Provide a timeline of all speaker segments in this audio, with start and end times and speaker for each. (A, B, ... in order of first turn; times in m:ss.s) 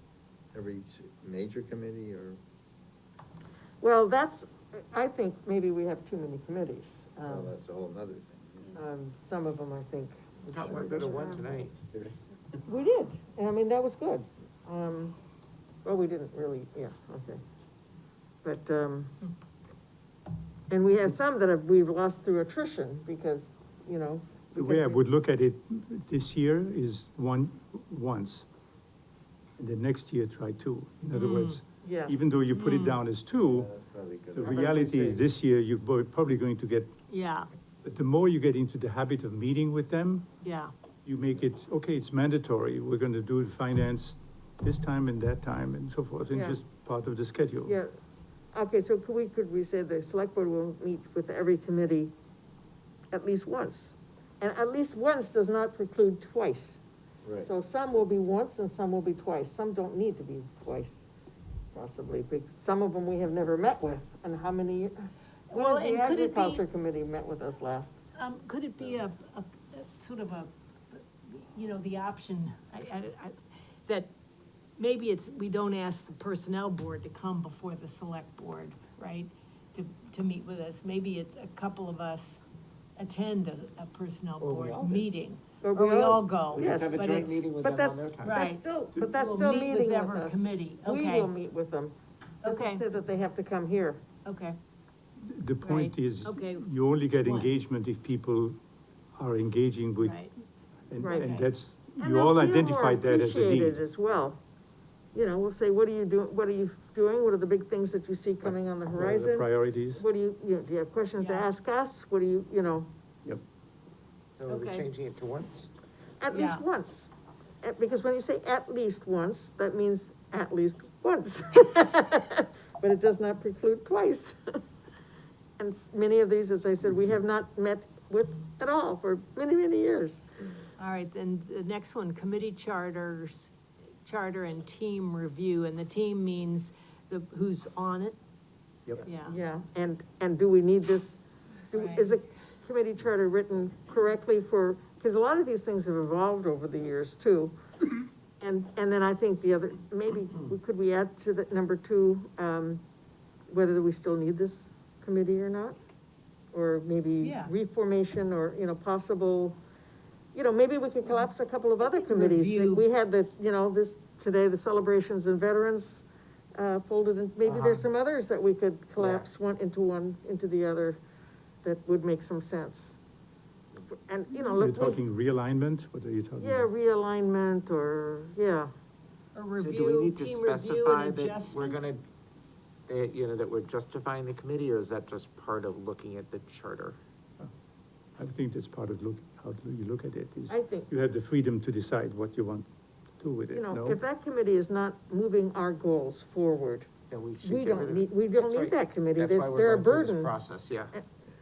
0:00.5-0:02.4 A
0:03.8-0:07.5 B
0:07.3-0:08.8 A
0:08.7-0:11.5 B
0:10.5-0:11.7 C
0:11.9-0:12.2 A
0:12.7-0:15.2 B
0:15.8-0:17.4 B
0:18.4-0:19.1 B
0:20.7-0:25.0 B
0:24.5-0:28.5 D
0:29.6-0:33.7 D
0:31.1-0:31.6 E
0:31.8-0:32.2 B
0:32.5-0:33.0 E
0:33.4-0:35.1 A
0:34.3-0:36.9 D
0:34.4-0:35.2 B
0:37.1-0:37.5 E
0:37.8-0:40.3 D
0:40.4-0:40.7 E
0:41.1-0:47.8 D
0:46.3-0:46.6 B
0:47.7-0:47.9 B
0:48.5-0:52.1 B
0:53.1-0:56.8 B
0:57.4-1:01.1 B
1:01.7-1:08.0 B
1:05.5-1:06.6 E
1:08.2-1:13.4 E
1:14.8-1:22.4 E
1:23.0-1:27.5 E
1:24.4-1:25.1 C
1:25.6-1:27.1 B
1:26.5-1:28.4 C
1:27.6-1:34.0 B
1:28.2-1:31.3 E
1:32.4-1:32.8 E
1:34.2-1:34.6 E
1:35.3-1:38.6 D
1:35.6-1:36.6 E
1:37.2-1:37.6 E
1:39.2-1:40.2 D
1:40.0-1:40.3 E
1:40.9-1:43.8 D
1:41.0-1:41.3 B
1:41.1-1:41.5 E
1:42.0-1:44.4 B
1:45.1-1:52.9 B
1:48.4-1:50.0 D
1:51.2-1:51.5 E
1:54.4-1:55.7 C
1:54.5-1:54.9 E
1:56.2-1:57.1 B
1:56.3-1:56.6 E
1:57.6-2:04.6 B
2:05.6-2:10.2 B
2:10.8-2:18.2 E
2:19.0-2:19.4 E
2:19.2-2:27.6 B
2:21.7-2:22.1 E
2:28.4-2:32.8 B
2:33.5-2:35.8 B
2:36.5-2:39.6 B
2:37.2-2:37.5 E
2:40.3-2:46.0 B
2:41.8-2:42.8 E
2:46.6-2:51.0 B
2:47.4-2:47.9 C
2:49.0-2:49.3 C
2:51.6-2:53.0 B
2:53.9-2:55.0 B
2:54.5-2:56.7 D
2:56.4-2:58.7 B
2:59.4-3:01.8 E
2:59.6-3:02.0 C
3:02.9-3:07.0 C
3:08.2-3:12.7 D
3:10.5-3:10.9 B
3:13.2-3:14.0 D
3:13.5-3:16.9 B
3:17.1-3:20.9 C
3:17.4-3:20.3 B